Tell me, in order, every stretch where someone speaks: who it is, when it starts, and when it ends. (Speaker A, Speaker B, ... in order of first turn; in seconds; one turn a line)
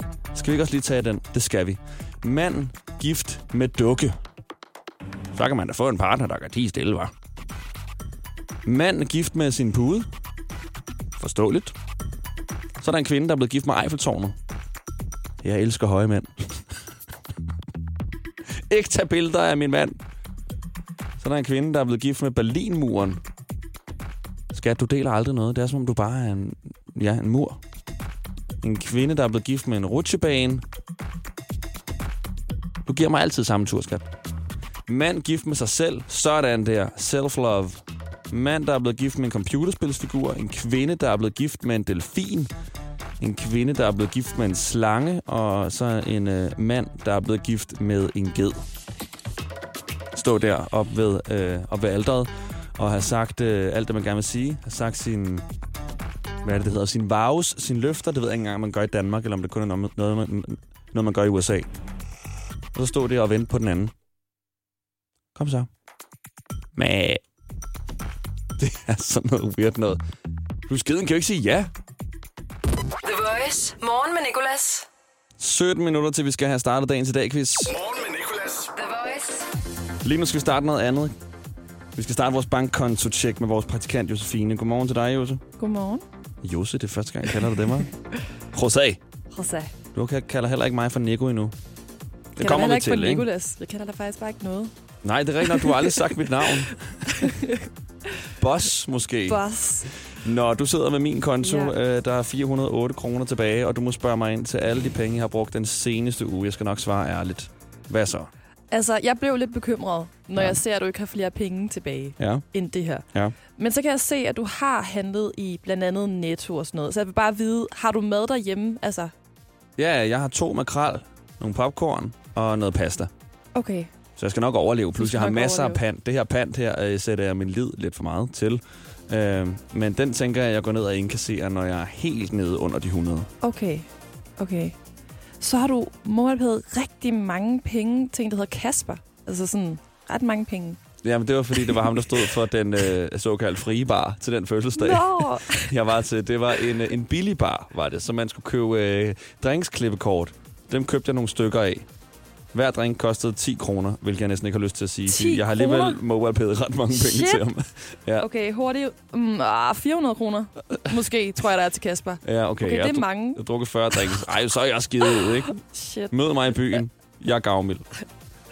Speaker A: 0.3-4.2
Speaker A: 5.3-7.1
Speaker A: 8.6-10.1
Speaker A: 11.2-11.7
Speaker A: 12.8-14.3
Speaker A: 15.4-16.6
Speaker A: 18.7-20.0
Speaker A: 21.2-23.2
Speaker A: 24.5-27.6
Speaker A: 28.6-30.6
Speaker A: 32.8-34.0
Speaker A: 34.9-42.5
Speaker A: 43.2-48.6
Speaker A: 50.1-55.5
Speaker A: 56.4-61.7
Speaker A: 62.7-63.9
Speaker A: 65.3-65.7
Speaker A: 66.7-67.2
Speaker A: 68.6-70.0
Speaker A: 70.7-71.7
Speaker B: 73.0-74.9
Speaker A: 75.4-77.9
Speaker B: 78.5-79.5
Speaker A: 80.0-81.1
Speaker A: 81.9-85.4
Speaker C: 85.6-86.0
Speaker A: 86.4-87.9
Speaker A: 88.5-89.0
Speaker C: 89.3-89.7
Speaker A: 89.9-91.5
Speaker A: 92.3-93.2
Speaker C: 92.4-94.7
Speaker A: 95.0-97.3
Speaker C: 95.4-96.0
Speaker C: 97.0-97.7
Speaker A: 98.4-99.4
Speaker C: 99.2-99.9
Speaker A: 100.1-108.3
Speaker C: 101.4-101.7
Speaker C: 108.7-113.0
Speaker A: 112.2-112.4
Speaker C: 113.5-119.1
Speaker A: 119.8-123.1
Speaker C: 123.5-123.9
Speaker A: 124.2-133.3
Speaker C: 125.0-125.8
Speaker C: 133.4-134.8
Speaker C: 135.4-140.8
Speaker A: 141.0-151.9
Speaker C: 141.6-142.2
Speaker C: 144.8-145.7
Speaker A: 152.5-158.2
Speaker C: 155.1-156.0
Speaker C: 156.9-157.4
Speaker C: 158.2-163.4
Speaker A: 162.2-165.6
Speaker C: 165.6-166.1
Speaker A: 166.1-167.9